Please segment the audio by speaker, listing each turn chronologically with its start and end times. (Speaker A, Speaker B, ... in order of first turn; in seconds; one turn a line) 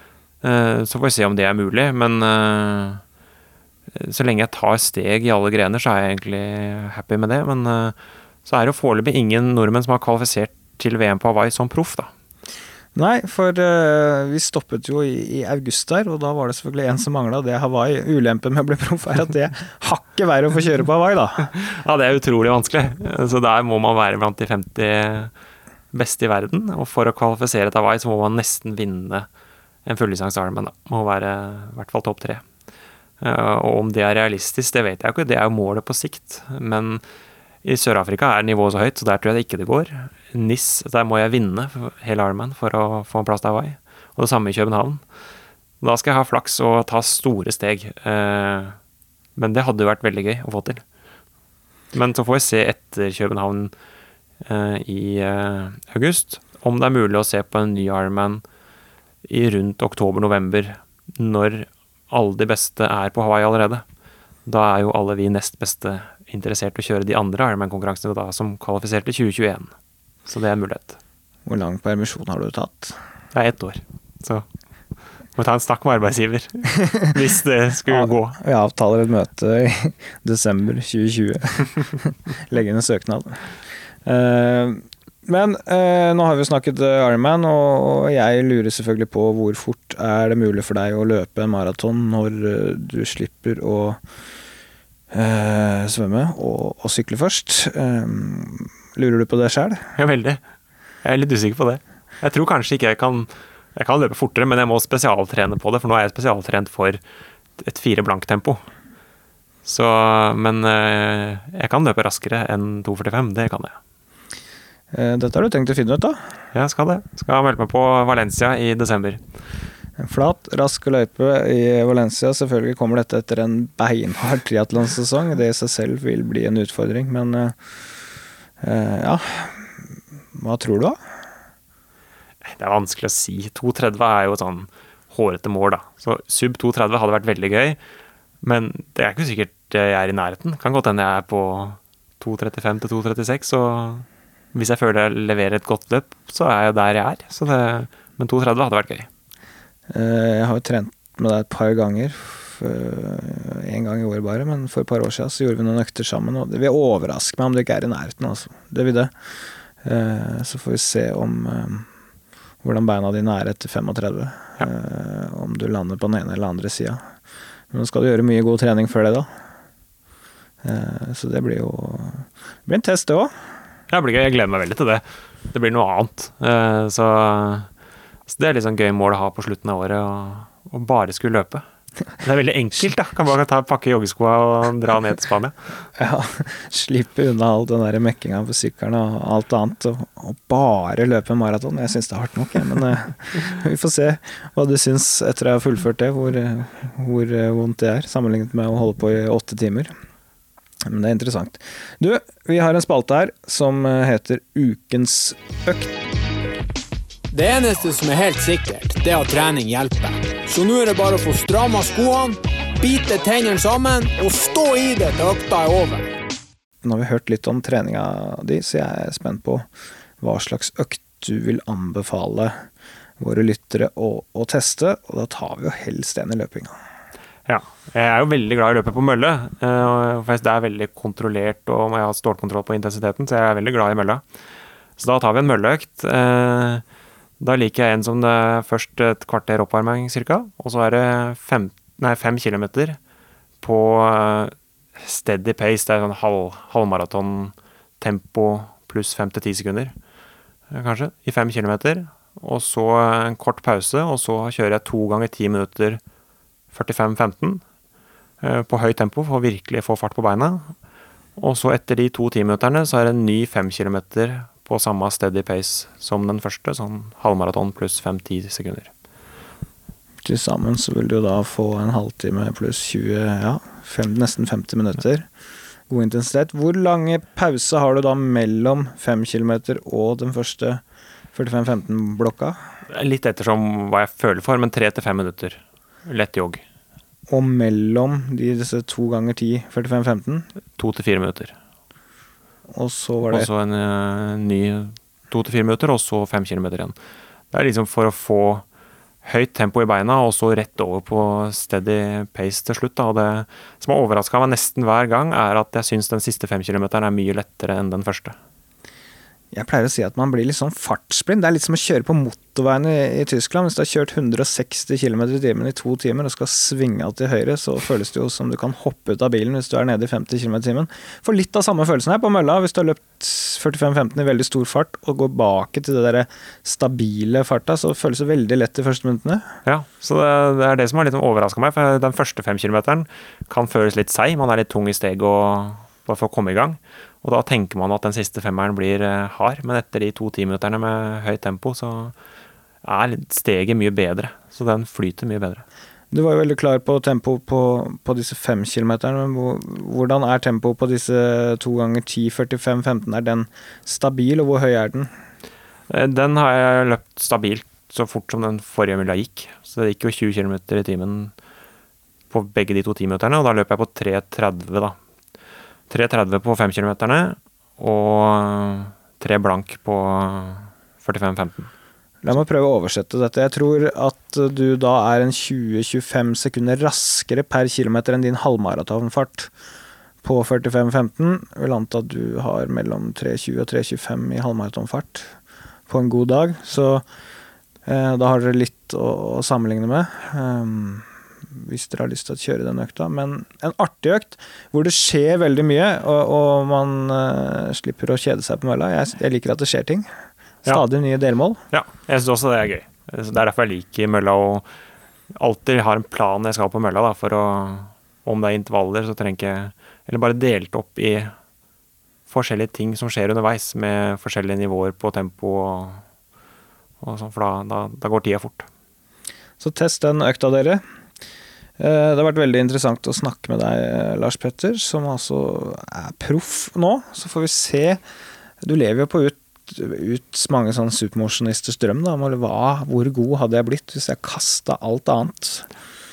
Speaker A: 0.4-3.0
Speaker A: 3.9-12.1
Speaker B: 12.9-21.5
Speaker A: 21.5-25.3
Speaker A: 25.9-29.3
Speaker A: 29.8-32.4
Speaker A: 33.2-37.0
Speaker A: 37.6-45.0
Speaker A: 45.8-48.8
Speaker A: 49.4-50.8
Speaker A: 51.9-53.7
Speaker A: 54.4-58.4
Speaker A: 59.2-63.8
Speaker A: 64.5-69.7
Speaker A: 70.2-71.0
Speaker B: 71.5-73.0
Speaker A: 73.3-74.5
Speaker A: 75.3-78.4
Speaker B: 77.9-83.4
Speaker B: 84.0-94.0
Speaker B: 95.1-99.9
Speaker A: 100.0-100.4
Speaker A: 101.0-107.0
Speaker A: 107.6-108.6
Speaker A: 109.6-113.8
Speaker B: 114.9-116.2
Speaker A: 116.5-119.2
Speaker B: 120.0-127.5
Speaker B: 128.6-131.0
Speaker A: 132.4-137.8
Speaker A: 138.4-149.1
Speaker B: 149.9-159.1
Speaker B: 159.8-161.9
Speaker B: 162.6-167.0
Speaker B: 167.7-169.3
Speaker B: 170.6-173.3
Speaker A: 173.9-177.7
Speaker A: 178.3-181.6
Speaker A: 182.2-185.5
Speaker B: 185.9-199.9
Speaker B: 200.8-206.0
Speaker C: 207.3-216.1
Speaker B: 216.8-219.7
Speaker B: 220.2-222.6
Speaker B: 223.2-226.8
Speaker A: 227.4-234.2
Speaker A: 235.0-236.8
Speaker A: 237.4-243.0
Speaker A: 243.6-249.9
Speaker A: 250.7-256.0
Speaker A: 256.7-257.6
Speaker A: 258.4-260.7
Speaker A: 261.4-268.9
Speaker B: 270.2-275.3
Speaker B: 275.9-280.8
Speaker B: 281.3-282.6
Speaker A: 282.9-286.6
Speaker B: 287.3-290.5
Speaker A: 290.8-291.5
Speaker B: 292.7-293.5
Speaker A: 293.3-296.9
Speaker A: 297.5-298.6
Speaker A: 299.2-308.4
Speaker B: 309.5-329.6
Speaker A: 329.6-342.1
Speaker A: 342.8-345.6
Speaker B: 346.1-355.1
Speaker A: 355.9-361.3
Speaker A: 362.3-365.0
Speaker A: 365.9-371.7
Speaker B: 372.2-379.5
Speaker B: 380.2-385.3
Speaker B: 385.9-387.0
Speaker B: 387.9-400.1
Speaker B: 400.6-401.6
Speaker A: 401.7-404.6
Speaker A: 405.3-411.3
Speaker A: 412.3-416.0
Speaker A: 417.0-418.7
Speaker B: 419.6-420.8
Speaker B: 421.8-428.0
Speaker B: 428.6-435.7